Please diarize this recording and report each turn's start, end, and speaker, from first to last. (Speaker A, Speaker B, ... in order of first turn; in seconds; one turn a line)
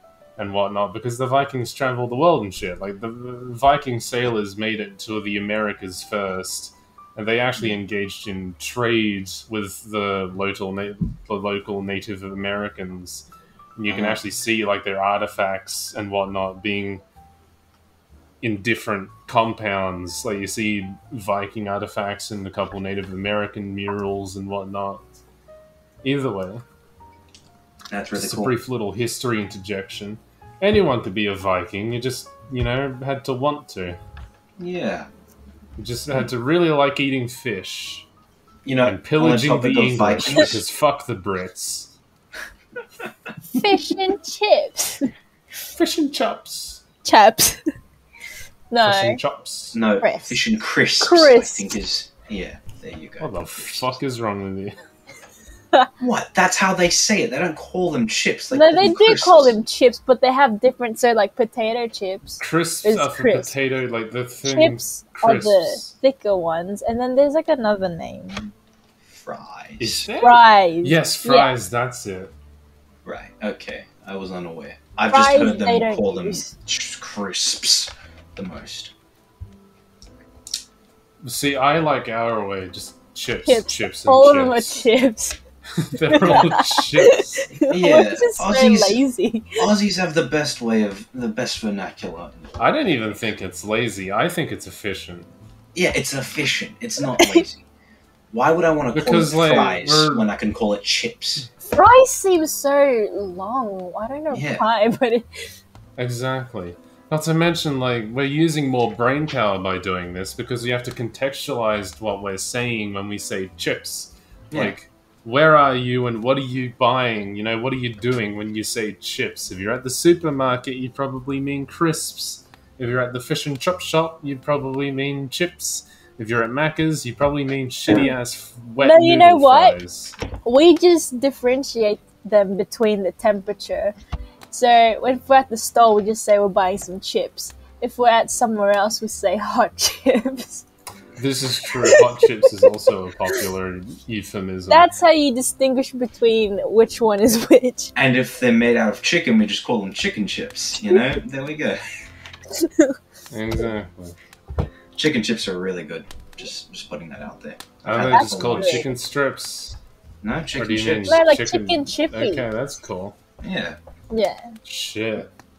Speaker A: 0.4-17.0
Speaker B: 13.9-14.2
Speaker A: 18.4-25.0
Speaker A: 26.0-26.6
Speaker B: 27.9-28.5
Speaker A: 28.1-34.0
Speaker B: 34.6-35.1
Speaker A: 35.8-38.1
Speaker B: 38.6-40.6
Speaker A: 38.9-41.9
Speaker C: 43.6-45.1
Speaker A: 45.8-46.8
Speaker C: 47.0-47.6
Speaker C: 48.7-49.2
Speaker A: 48.8-49.8
Speaker B: 49.7-54.0
Speaker C: 50.0-50.4
Speaker C: 51.0-51.8
Speaker A: 53.2-54.8
Speaker B: 56.0-59.6
Speaker C: 58.5-63.5
Speaker A: 62.4-65.9
Speaker C: 64.5-68.5
Speaker B: 69.1-70.1
Speaker A: 69.8-72.3
Speaker C: 70.2-71.5
Speaker B: 73.0-78.9
Speaker C: 75.1-76.5
Speaker A: 81.2-84.9
Speaker C: 83.5-85.4
Speaker A: 85.8-87.3
Speaker C: 86.0-89.7
Speaker B: 87.7-89.0
Speaker B: 89.6-93.2
Speaker A: 92.6-95.3
Speaker B: 95.7-97.7
Speaker C: 97.2-97.5
Speaker B: 98.3-101.5
Speaker A: 98.9-100.3
Speaker C: 101.7-105.3
Speaker B: 104.3-104.7
Speaker A: 106.0-130.1
Speaker C: 128.8-129.8
Speaker C: 130.4-133.9
Speaker C: 134.5-140.7
Speaker A: 141.2-144.9
Speaker C: 141.8-142.7
Speaker C: 144.7-147.9
Speaker B: 147.9-151.8
Speaker C: 152.5-153.0
Speaker A: 153.3-154.2
Speaker B: 155.0-158.9
Speaker A: 157.8-159.8
Speaker C: 157.9-158.9
Speaker B: 160.2-161.2
Speaker A: 160.6-163.2
Speaker C: 161.1-162.4
Speaker B: 163.4-163.8
Speaker C: 164.1-164.5
Speaker A: 164.7-165.3